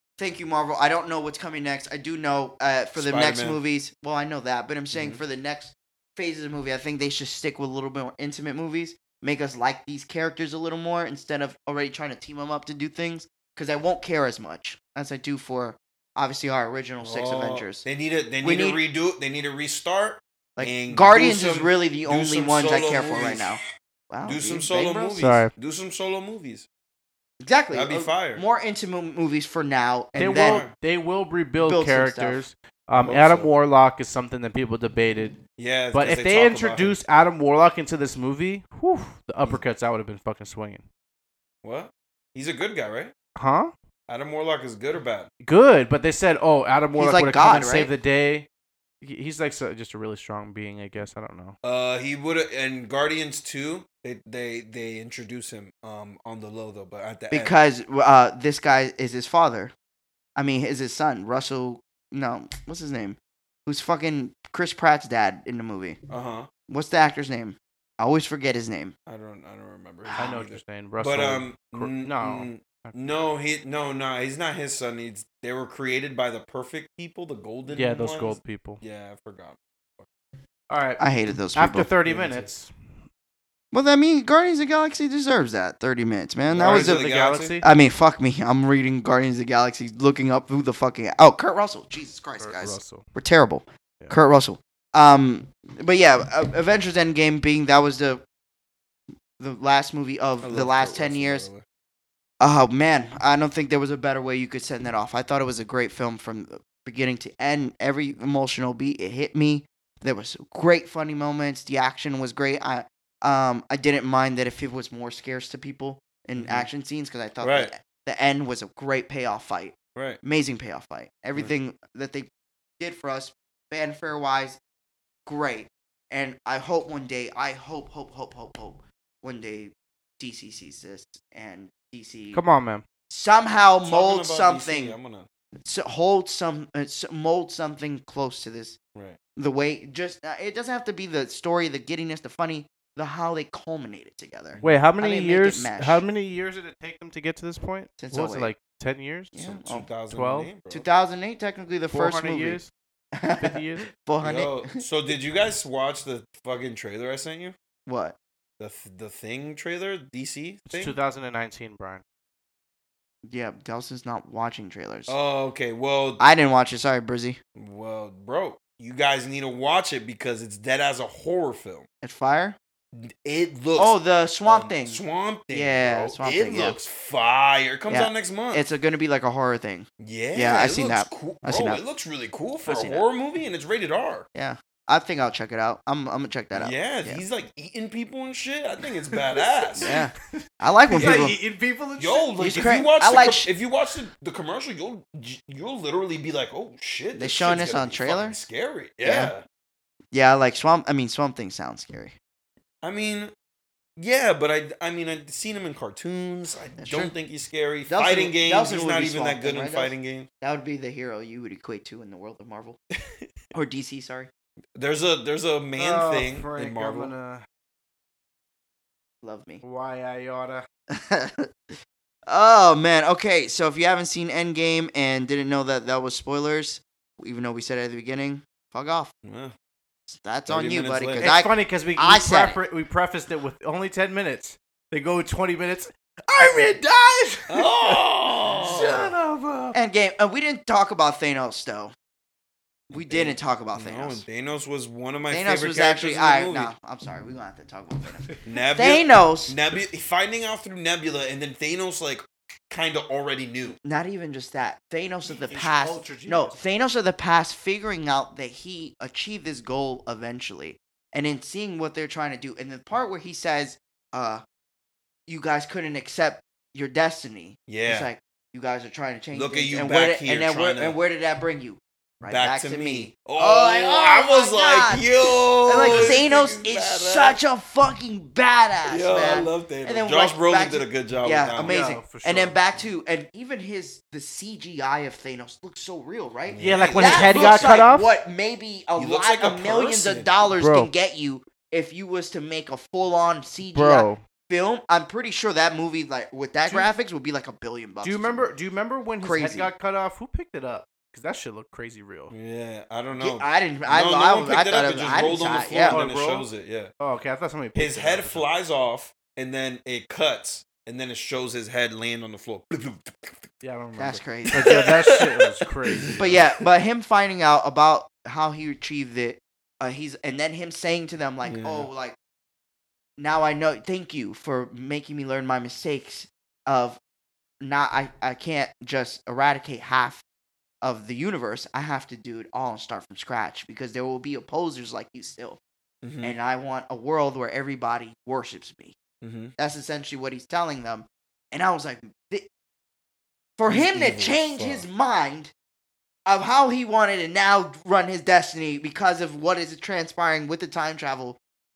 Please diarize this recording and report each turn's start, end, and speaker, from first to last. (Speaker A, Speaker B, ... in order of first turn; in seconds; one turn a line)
Speaker A: 0.2-17.9
Speaker B: 3.0-3.6
Speaker B: 4.9-5.2
Speaker B: 17.0-23.6
Speaker A: 18.4-18.8
Speaker A: 20.6-25.2
Speaker B: 24.2-26.7
Speaker C: 25.2-25.5
Speaker A: 27.4-30.7
Speaker B: 27.7-28.4
Speaker C: 30.2-35.4
Speaker B: 30.4-30.7
Speaker A: 31.6-32.4
Speaker B: 33.0-33.5
Speaker B: 35.6-37.0
Speaker C: 35.9-40.8
Speaker B: 41.6-43.1
Speaker C: 43.4-43.7
Speaker B: 44.1-45.3
Speaker C: 45.4-48.5
Speaker A: 47.0-47.9
Speaker C: 49.0-51.6
Speaker B: 51.6-57.5
Speaker A: 57.3-59.7
Speaker A: 60.4-66.0
Speaker B: 66.1-66.5
Speaker A: 66.7-68.9
Speaker B: 69.1-80.1
Speaker C: 70.2-73.0
Speaker C: 77.7-78.8
Speaker C: 80.7-82.7
Speaker A: 81.0-81.9
Speaker B: 82.0-82.5
Speaker A: 83.7-87.1
Speaker B: 86.5-87.6
Speaker C: 86.6-87.7
Speaker A: 87.6-98.2
Speaker C: 92.4-93.0
Speaker A: 99.4-101.5
Speaker B: 100.4-101.6
Speaker A: 102.4-124.6
Speaker B: 116.4-116.7
Speaker B: 117.4-117.7
Speaker B: 120.0-120.2
Speaker A: 125.3-132.4
Speaker C: 132.3-132.8
Speaker A: 133.1-135.0
Speaker B: 133.8-135.3
Speaker A: 135.6-138.8
Speaker A: 139.4-146.0
Speaker B: 144.5-144.8
Speaker C: 144.6-150.5
Speaker A: 148.0-148.5
Speaker A: 149.3-149.9
Speaker B: 149.5-150.9
Speaker A: 150.7-152.6
Speaker C: 151.9-152.7
Speaker A: 153.1-154.8
Speaker C: 153.4-153.9
Speaker B: 154.2-157.6
Speaker A: 157.9-158.2
Speaker B: 158.6-161.0
Speaker C: 160.7-162.0
Speaker A: 163.2-165.1
Speaker B: 165.1-166.2
Speaker A: 166.2-167.4
Speaker B: 167.6-171.9
Speaker A: 172.0-172.6
Speaker B: 172.9-178.7
Speaker A: 173.8-176.8
Speaker A: 177.9-181.8
Speaker B: 180.0-184.3
Speaker A: 182.7-183.0
Speaker A: 184.3-187.2
Speaker B: 186.6-189.9
Speaker C: 189.1-192.5
Speaker A: 189.8-191.4
Speaker B: 190.9-191.3
Speaker B: 192.0-199.4
Speaker A: 192.4-193.5
Speaker A: 197.2-198.4
Speaker A: 199.0-199.3
Speaker A: 200.1-202.2
Speaker B: 202.8-203.3
Speaker B: 204.0-210.3
Speaker A: 206.8-207.1
Speaker A: 207.9-212.8
Speaker A: 213.5-214.3
Speaker B: 214.8-217.1
Speaker C: 215.8-217.4
Speaker A: 219.2-219.6
Speaker C: 219.6-220.7
Speaker A: 220.9-221.7
Speaker A: 222.3-229.1
Speaker B: 229.2-229.5
Speaker A: 230.1-232.6
Speaker B: 230.5-231.3
Speaker C: 231.2-239.8
Speaker B: 237.5-239.2
Speaker A: 239.7-241.9
Speaker A: 242.9-244.2
Speaker B: 242.9-246.7
Speaker A: 245.3-249.6
Speaker B: 248.4-253.8
Speaker A: 253.8-264.4
Speaker C: 255.3-256.6
Speaker A: 265.3-298.5
Speaker B: 267.7-268.1
Speaker B: 269.3-271.0
Speaker B: 272.2-277.4
Speaker B: 278.9-281.8
Speaker C: 281.6-282.6
Speaker B: 286.5-287.9
Speaker C: 286.6-288.1
Speaker B: 289.0-290.3
Speaker C: 290.6-290.9
Speaker C: 293.7-294.2
Speaker C: 298.0-302.3
Speaker A: 299.2-299.7
Speaker B: 302.3-306.9
Speaker A: 303.2-306.0
Speaker C: 305.7-306.5
Speaker C: 307.0-308.5
Speaker B: 307.8-313.5
Speaker C: 313.6-316.2
Speaker A: 314.0-314.8
Speaker B: 314.5-316.4
Speaker A: 316.1-322.2
Speaker B: 321.4-321.9
Speaker A: 323.2-327.0
Speaker A: 327.6-330.2
Speaker A: 330.8-335.6
Speaker B: 336.0-336.4
Speaker A: 336.2-339.0
Speaker B: 339.2-339.5
Speaker A: 339.6-342.5
Speaker A: 343.6-345.5
Speaker B: 343.7-344.9
Speaker A: 346.3-351.4